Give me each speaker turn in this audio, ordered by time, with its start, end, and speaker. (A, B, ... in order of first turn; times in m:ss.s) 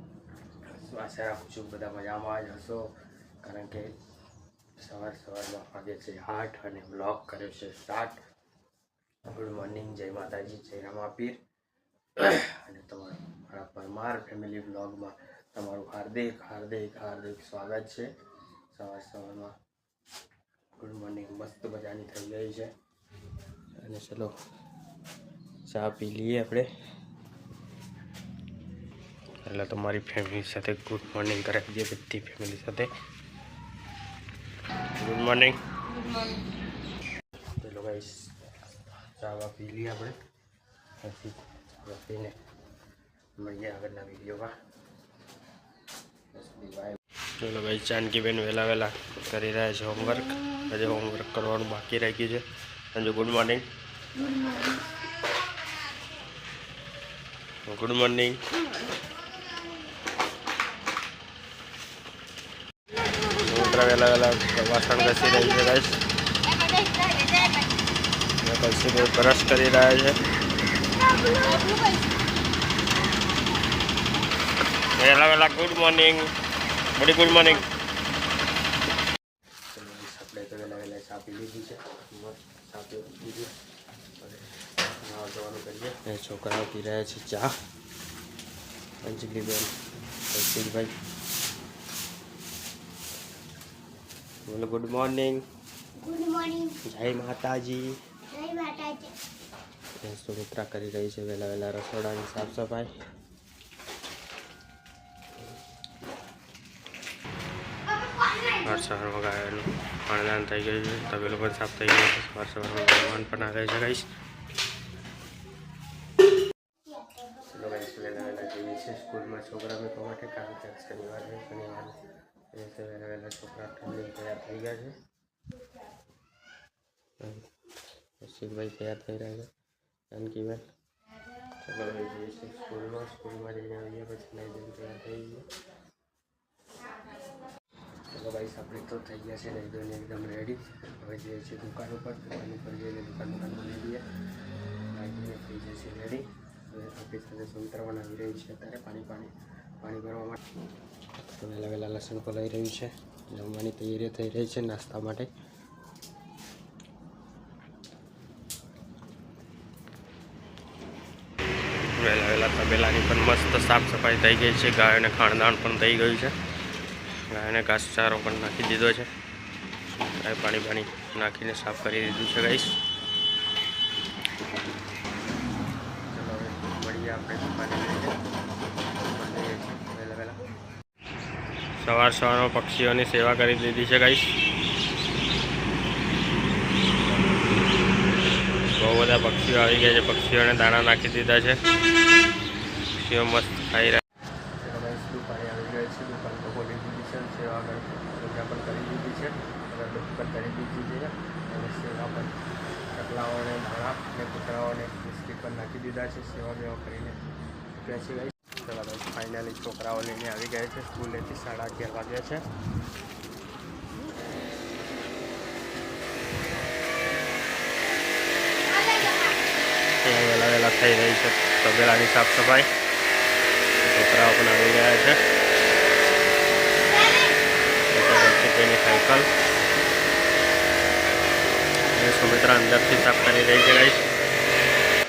0:00.7-0:03.9 A
0:04.8-0:08.2 A
0:09.3-0:11.4 A
0:12.2-0:18.1 A
0:18.7-0:19.5 A
0:20.8-0:22.7 A
0:23.8-0:24.3 A
0:25.7-0:26.7 A
0:29.4-0:32.9 A
0:35.0-0:35.6 A
0:37.6-0:38.3 A
0:39.2-0:40.2 A
0:41.0-0:42.4 A
0:43.4-0:44.5 A
0:46.3-0:53.6 A
0:54.2-0:54.8 B
0:57.7-0:58.4 A
1:03.1-1:03.6 B
1:03.3-1:06.0 A
1:08.4-1:10.2 A
1:11.0-1:12.0 B
1:14.9-1:16.3 A
1:16.9-1:17.7 A
1:19.7-1:23.5 A
1:24.2-1:24.4 A
1:25.0-1:27.5 A
1:29.0-1:29.7 A
1:30.3-1:30.9 A
1:34.5-1:35.4 A
1:36.0-1:36.8 B
1:36.8-1:38.0 A
1:38.3-1:39.1 B
1:40.0-1:42.9 A
1:48.6-1:54.1 A
1:57.4-2:02.0 A
2:02.5-2:05.0 A
2:07.2-2:07.4 A
2:08.2-2:09.5 A
2:10.1-2:10.6 A
2:11.6-2:15.5 A
2:18.1-2:24.0 A
2:24.9-2:29.3 A
2:29.8-2:30.4 A
2:31.2-2:35.3 A
2:42.0-2:46.4 A
2:47.3-2:49.1 A
2:49.9-2:52.7 A
2:56.1-2:58.1 A
2:59.0-3:00.4 A
3:01.8-3:04.4 A
3:08.8-3:11.6 A
3:13.0-3:14.0 A
3:14.6-3:22.4 A
3:22.9-3:27.2 A
3:27.7-3:32.4 A
3:40.0-3:42.7 A
3:43.8-3:45.2 A
3:47.9-3:49.3 A
3:51.9-3:54.0 A